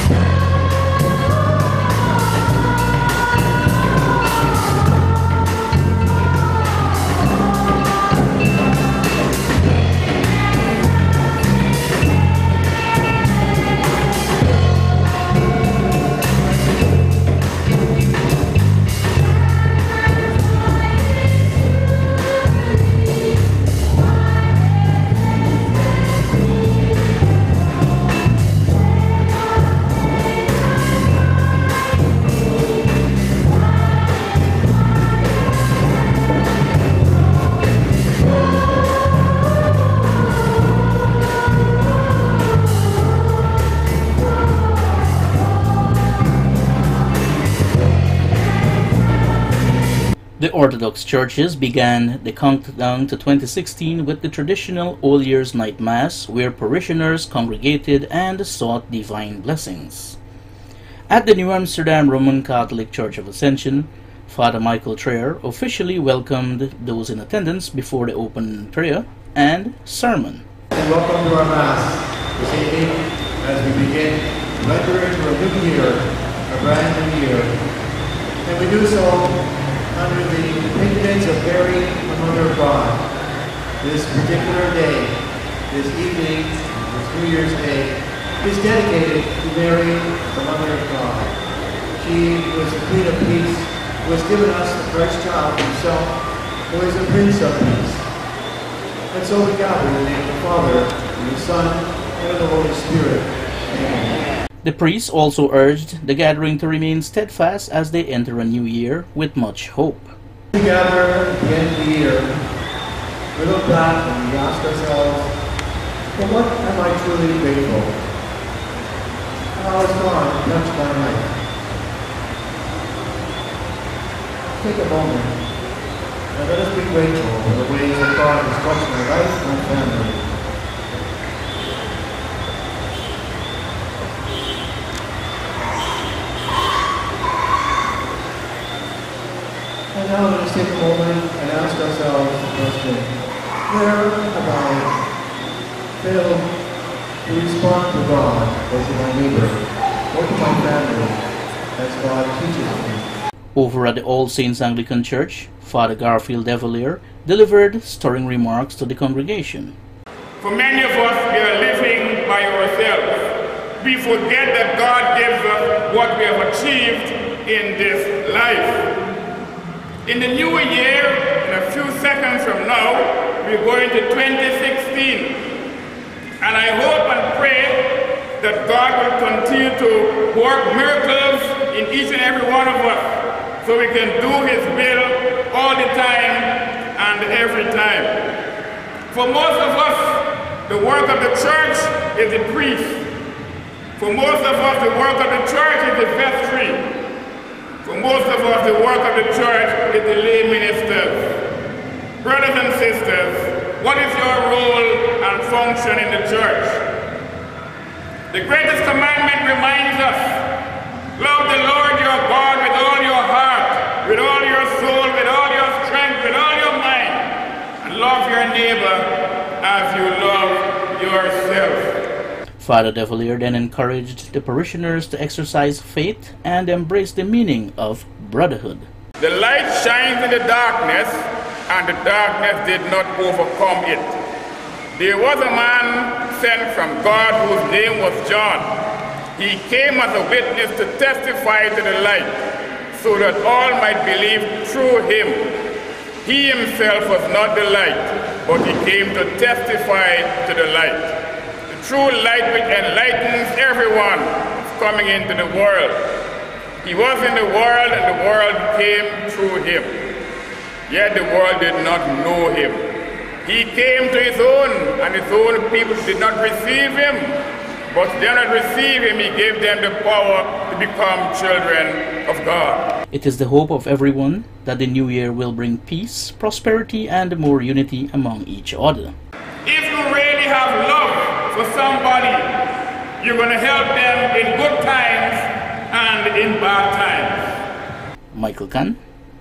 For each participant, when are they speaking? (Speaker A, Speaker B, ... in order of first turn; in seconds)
Speaker A: 50.4-60.2, 61.1-70.4, 104.6-110.1, 153.6-159.8, 222.6-228.9, 273.1-279.1, 288.3-289.0
Speaker B: 70.7-77.6, 78.4-83.1, 83.8-91.3, 92.0-98.1, 99.1-104.3, 110.5-112.4, 113.3-115.3, 116.1-118.0, 119.5-121.3, 124.6-125.4, 126.3-130.3, 139.9-144.9, 146.0-146.5, 147.2-149.6, 150.1-151.2, 151.8-153.1
Speaker C: 160.4-168.9, 170.1-175.5, 176.4-188.4, 189.1-193.1, 194.0-196.9, 197.8-201.4, 202.2-206.9, 208.3-210.6, 211.2-222.0, 229.2-234.2, 234.9-238.8, 239.4-242.4, 242.9-245.6, 246.2-256.2, 256.8-260.1, 260.9-262.9, 263.4-267.4, 267.9-272.9, 279.6-287.6